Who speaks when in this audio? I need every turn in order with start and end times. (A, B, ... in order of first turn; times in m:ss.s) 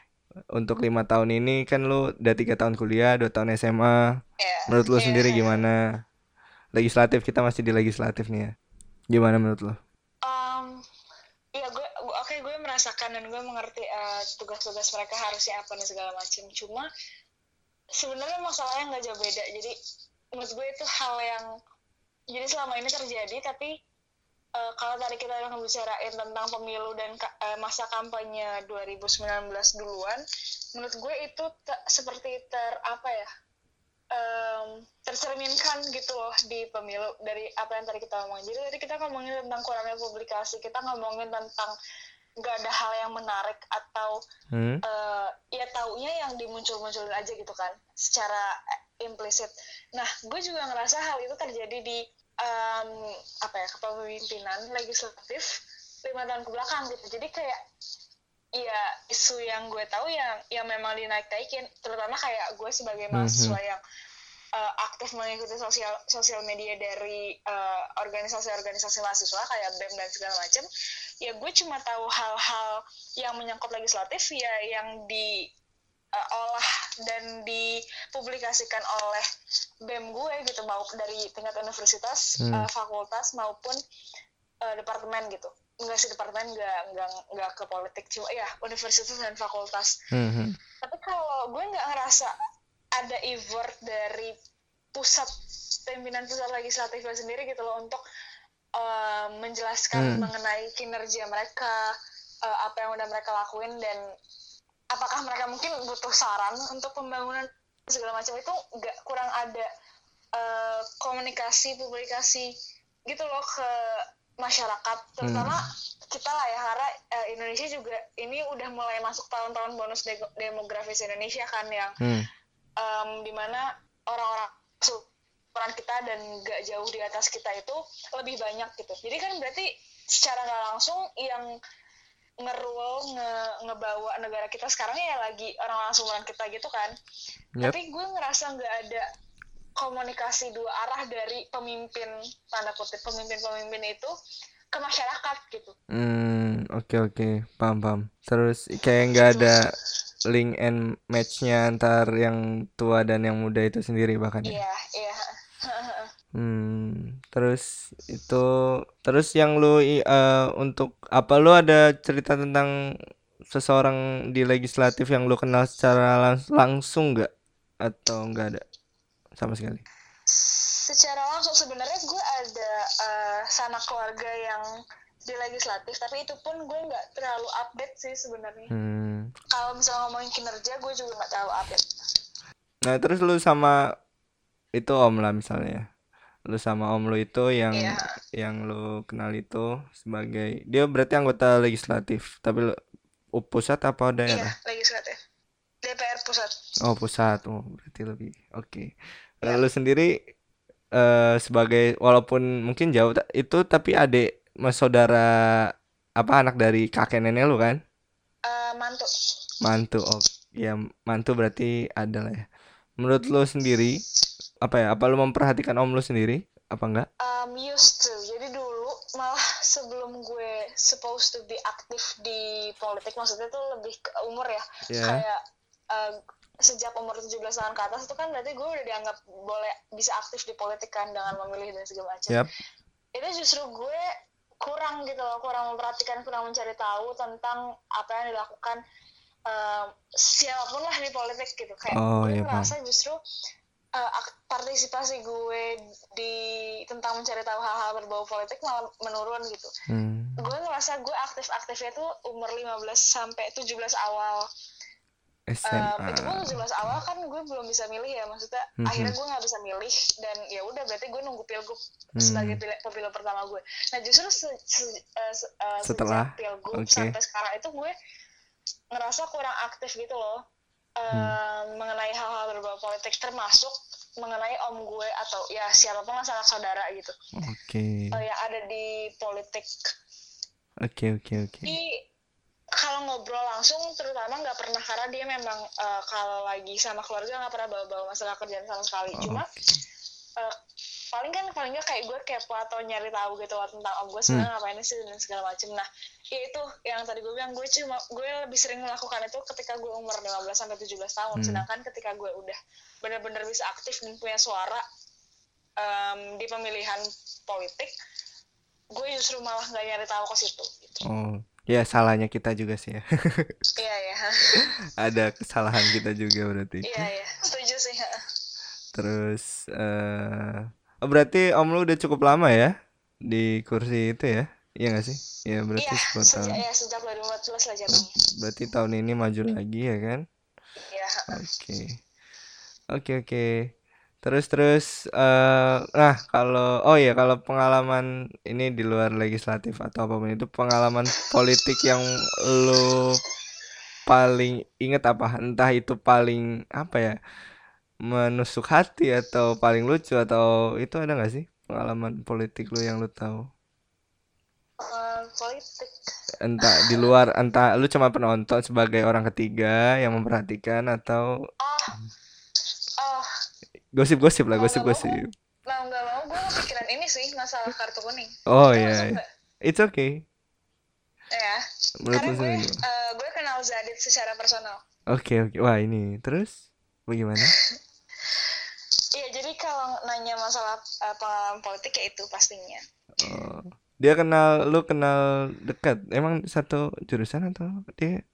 0:00.6-0:04.0 A
0:04.4-0:05.6 B
0:04.7-0:05.8 A
0:06.8-0:08.5 A
0:09.1-0:09.8 A
0:10.2-0:10.8 B
0:11.6-0:16.9 B
0:18.0-0:19.8 B
0:20.4-0:21.5 B
0:22.3-0:23.7 B
0:24.6-0:30.2 B
0:30.8-0:33.3 B
0:34.1-0:41.7 B
0:42.4-0:44.2 B
0:44.5-0:44.8 A
0:44.8-0:48.5 B
0:49.0-0:55.5 B
0:56.0-0:57.6 B
0:58.6-1:03.8 B
1:03.1-1:03.6 A
1:04.6-1:10.7 B
1:11.2-1:15.4 B
1:16.2-1:19.2 B
1:19.8-1:23.8 B
1:22.4-1:22.7 A
1:24.6-1:30.0 B
1:30.1-1:30.6 A
1:30.8-1:32.3 B
1:33.0-1:34.3 B
1:35.0-1:35.3 B
1:35.8-1:38.0 B
1:38.8-1:41.8 B
1:40.0-1:40.3 A
1:42.4-1:44.0 B
1:44.9-1:49.7 B
1:50.4-1:52.5 B
1:53.1-2:02.0 B
1:55.2-1:55.6 A
2:02.0-2:02.3 A
2:02.8-2:11.5 B
2:12.4-2:16.9 B
2:17.6-2:19.1 B
2:19.8-2:24.1 B
2:24.7-2:25.8 B
2:25.9-2:29.7 A
2:29.2-2:29.6 B
2:30.3-2:34.6 A
2:34.5-2:36.1 B
2:36.4-2:38.4 A
2:39.0-2:42.7 A
2:43.5-2:47.3 A
2:47.8-2:48.6 A
2:49.4-2:49.8 A
2:50.3-2:54.7 B
2:55.3-2:58.7 B
2:58.7-2:59.3 A
2:59.5-3:01.9 B
3:02.9-3:03.8 A
3:04.8-3:05.8 A
3:06.5-3:12.7 A
3:07.7-3:08.1 B
3:13.4-3:14.5 A
3:14.3-3:15.2 B
3:15.8-3:16.6 B
3:16.8-3:18.9 A
3:19.4-3:20.1 A
3:21.0-3:25.3 A
3:26.2-3:27.8 A
3:28.5-3:29.1 B
3:29.6-3:32.5 A
3:33.0-3:34.0 A
3:34.6-3:37.1 A
3:37.2-3:45.4 B
3:44.9-3:45.2 A
3:45.9-3:52.4 B
3:53.2-3:54.0 B
3:54.6-3:58.8 B
3:59.5-4:03.2 B
4:01.9-4:02.7 A
4:04.0-4:09.7 B
4:09.9-4:10.4 A
4:10.4-4:14.5 B
4:15.5-4:16.9 A
4:15.7-4:27.9 B
4:18.8-4:19.1 A
4:22.2-4:22.6 A
4:25.8-4:27.1 A
4:28.9-4:30.4 B
4:31.0-4:37.2 B
4:37.4-4:38.1 A
4:38.1-4:39.7 B
4:40.8-4:41.7 A
4:41.7-4:41.9 B
4:42.8-4:49.5 B
4:49.1-4:49.8 A
4:51.1-5:04.8 B
5:01.4-5:01.6 A
5:05.8-5:07.9 B
5:09.0-5:11.0 B
5:11.1-5:13.5 A
5:13.8-5:14.7 B
5:14.6-5:17.0 A
5:16.8-5:18.2 B
5:19.0-5:22.7 A
5:23.3-5:26.6 A
5:25.8-5:28.1 B
5:27.9-5:30.2 A
5:30.8-5:31.4 B
5:31.3-5:32.0 A
5:32.9-5:33.7 A
5:34.2-5:43.2 A
5:44.1-5:47.1 A
5:48.1-5:53.4 A
5:54.8-5:56.0 B
5:56.4-6:01.3 A
5:56.6-5:57.1 B
6:01.6-6:02.0 B
6:03.0-6:03.3 B
6:04.0-6:05.3 A
6:04.5-6:09.3 B
6:08.5-6:10.2 A
6:11.3-6:14.8 B
6:12.0-6:12.8 A
6:15.1-6:17.6 A
6:17.5-6:18.5 B
6:19.2-6:22.8 B
6:23.2-6:28.2 A